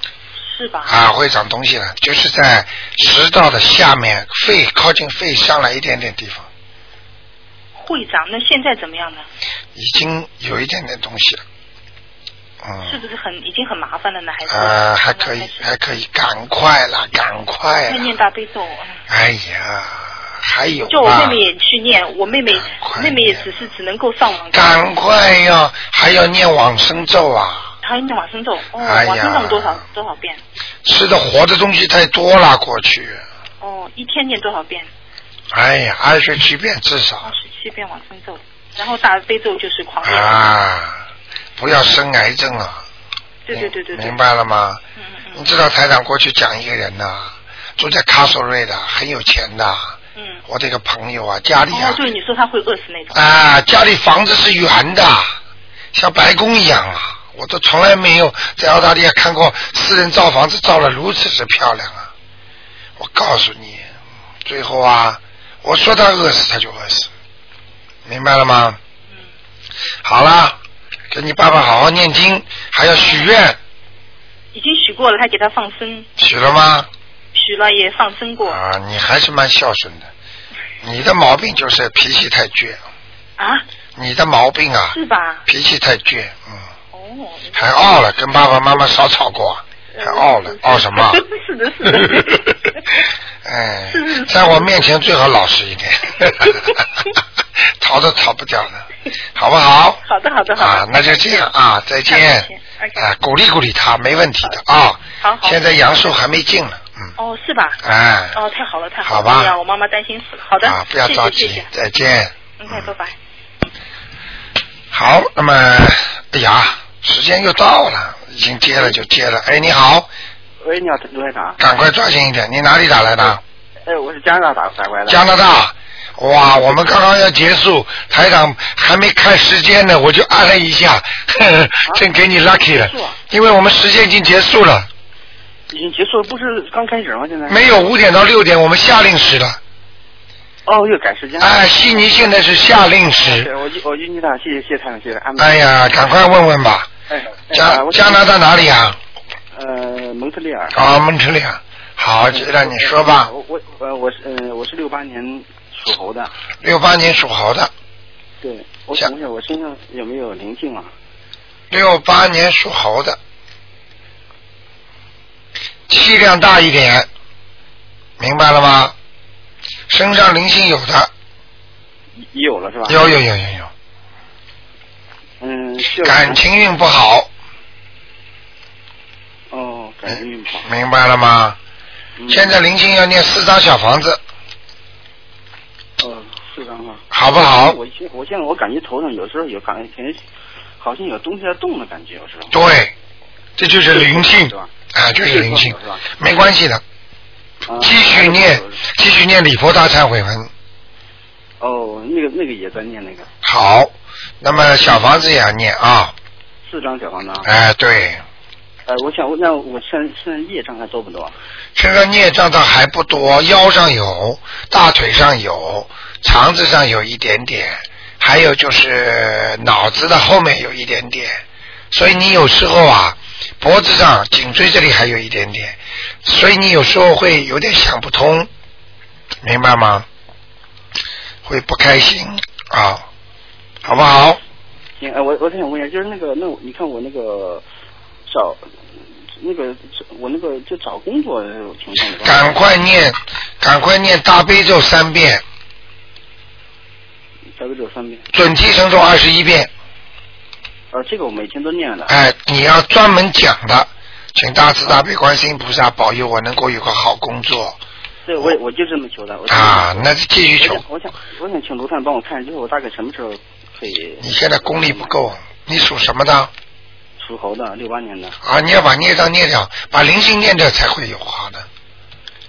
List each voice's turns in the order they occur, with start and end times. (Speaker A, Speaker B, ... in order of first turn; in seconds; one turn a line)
Speaker A: 0.4-1.0
Speaker B: 0.9-6.5
Speaker A: 7.8-9.3
Speaker B: 9.8-11.4
Speaker B: 12.6-13.0
Speaker A: 12.8-15.6
Speaker B: 14.5-18.1
Speaker A: 17.7-19.0
Speaker B: 19.1-21.4
Speaker A: 20.9-24.8
Speaker B: 22.5-23.5
Speaker B: 24.5-27.7
Speaker A: 27.8-30.4
Speaker B: 28.8-29.8
Speaker B: 30.9-33.2
Speaker A: 33.6-34.9
Speaker B: 35.5-37.3
Speaker A: 37.2-40.4
Speaker B: 40.0-41.0
Speaker B: 41.6-42.8
Speaker A: 43.5-44.2
Speaker B: 43.5-44.8
Speaker A: 45.0-45.5
Speaker B: 45.3-52.0
Speaker A: 50.2-50.4
Speaker A: 51.7-53.2
Speaker B: 53.1-55.4
Speaker B: 55.9-62.1
Speaker B: 63.0-63.9
Speaker B: 64.5-67.1
Speaker B: 68.1-68.8
Speaker B: 70.0-70.6
Speaker B: 71.1-73.6
Speaker A: 74.5-76.1
Speaker B: 76.2-76.9
Speaker A: 77.3-78.6
Speaker B: 78.4-80.1
Speaker B: 80.8-82.8
Speaker A: 83.4-83.7
Speaker B: 84.0-86.7
Speaker A: 84.9-85.4
Speaker A: 86.9-87.7
Speaker B: 87.5-91.2
Speaker A: 89.9-92.4
Speaker B: 91.9-92.5
Speaker B: 93.4-96.8
Speaker A: 93.9-94.9
Speaker A: 96.5-96.8
Speaker B: 97.8-100.0
Speaker A: 100.0-101.5
Speaker B: 100.6-107.1
Speaker A: 102.1-103.0
Speaker A: 105.2-105.6
Speaker A: 107.2-107.8
Speaker B: 107.8-108.4
Speaker A: 108.3-111.7
Speaker B: 109.0-109.5
Speaker B: 110.6-112.8
Speaker A: 112.6-113.2
Speaker B: 114.9-120.1
Speaker C: 118.7-119.0
Speaker C: 120.6-121.6
Speaker B: 121.6-123.4
Speaker C: 123.9-125.3
Speaker B: 125.1-134.9
Speaker C: 132.6-133.2
Speaker C: 135.7-137.8
Speaker B: 137.5-139.6
Speaker C: 140.7-142.4
Speaker B: 141.4-143.5
Speaker C: 143.1-145.9
Speaker B: 145.4-146.9
Speaker C: 147.1-148.4
Speaker B: 147.5-149.0
Speaker C: 149.5-150.8
Speaker B: 150.7-153.3
Speaker C: 152.2-156.3
Speaker B: 156.6-157.7
Speaker C: 158.4-160.9
Speaker B: 161.7-163.2
Speaker B: 165.9-167.1
Speaker B: 168.2-168.9
Speaker B: 169.9-171.1
Speaker C: 172.2-173.1
Speaker B: 172.9-173.7
Speaker C: 175.4-176.4
Speaker B: 176.0-177.3
Speaker C: 179.5-180.7
Speaker B: 180.6-181.6
Speaker C: 182.2-182.6
Speaker B: 182.3-184.2
Speaker C: 186.0-190.2
Speaker B: 187.1-187.8
Speaker C: 190.8-192.6
Speaker B: 192.5-192.9
Speaker B: 193.6-196.8
Speaker C: 193.9-196.1
Speaker C: 197.7-198.8
Speaker B: 197.8-200.5
Speaker C: 201.6-203.3
Speaker B: 203.4-206.1
Speaker C: 204.5-205.0
Speaker C: 206.6-207.5
Speaker B: 207.4-208.2
Speaker C: 208.9-211.3
Speaker B: 211.8-228.5
Speaker B: 229.4-230.1
Speaker B: 231.4-233.1
Speaker B: 233.8-234.4
Speaker C: 235.0-237.6
Speaker C: 238.3-238.7
Speaker C: 239.4-242.6
Speaker B: 242.2-245.4
Speaker C: 247.6-248.3
Speaker B: 248.3-249.7
Speaker C: 250.9-252.2
Speaker B: 252.1-257.8
Speaker C: 258.2-265.2
Speaker B: 259.5-260.8
Speaker B: 264.2-266.5
Speaker C: 267.2-268.4
Speaker B: 268.4-271.7